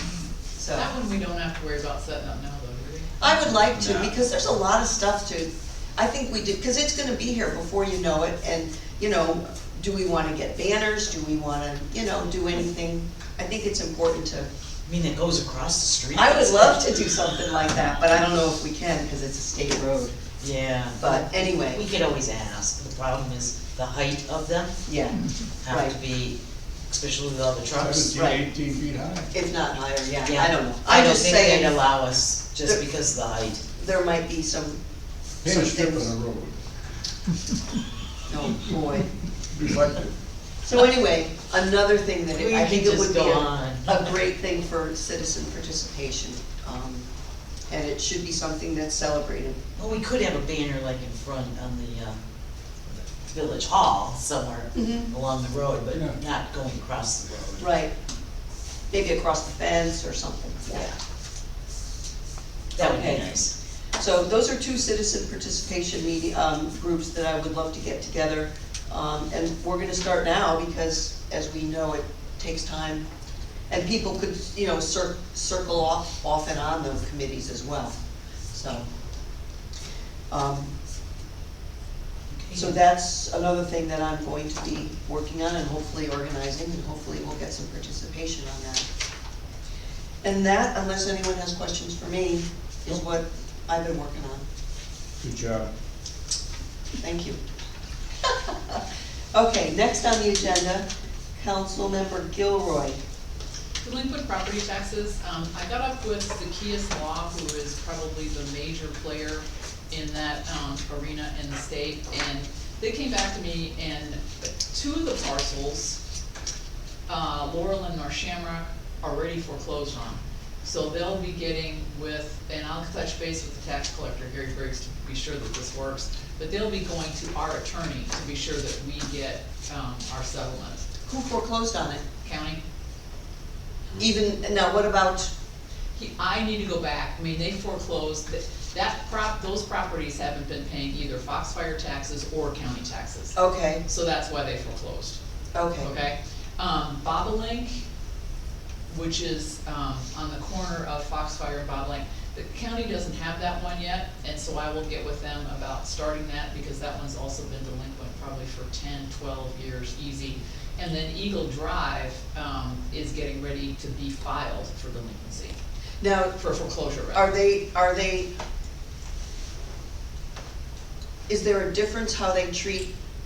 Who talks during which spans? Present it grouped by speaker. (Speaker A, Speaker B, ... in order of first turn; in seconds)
Speaker A: 0.6-0.9, 3.2-14.5, 16.1-20.2, 21.0-21.8, 24.9-25.9, 28.1-28.4, 29.3-31.8, 33.8-34.8, 35.5-36.1, 38.3-39.1, 40.6-47.1, 47.7-49.6, 54.7-55.1, 57.6-57.9, 58.9-60.9, 62.8-63.3, 64.0-73.1, 73.7-78.0, 78.5-78.9, 80.3-80.7, 82.5-88.9, 90.2-94.5, 97.0-97.4, 98.3-98.8, 99.3-100.9, 101.4-103.0, 131.1-132.0, 134.0-135.3, 143.3-143.8, 145.5-145.9, 166.0-166.4, 167.1-168.3, 171.3-172.9
Speaker B: 0.7-3.5, 103.8-116.0, 117.1-130.8, 132.2-132.6, 136.0-143.3, 143.9-145.2, 145.8-147.8, 148.9-165.6, 166.4-167.3
Speaker C: 3.8-4.1, 27.8-29.3, 35.4-36.6, 39.5-40.1, 57.3-57.6, 95.2-95.7
Speaker D: 14.9-16.8, 20.4-24.8, 25.6-28.1, 30.3-33.6, 42.3-44.1, 49.8-52.2, 52.9-57.4, 62.7-63.5, 82.3-82.7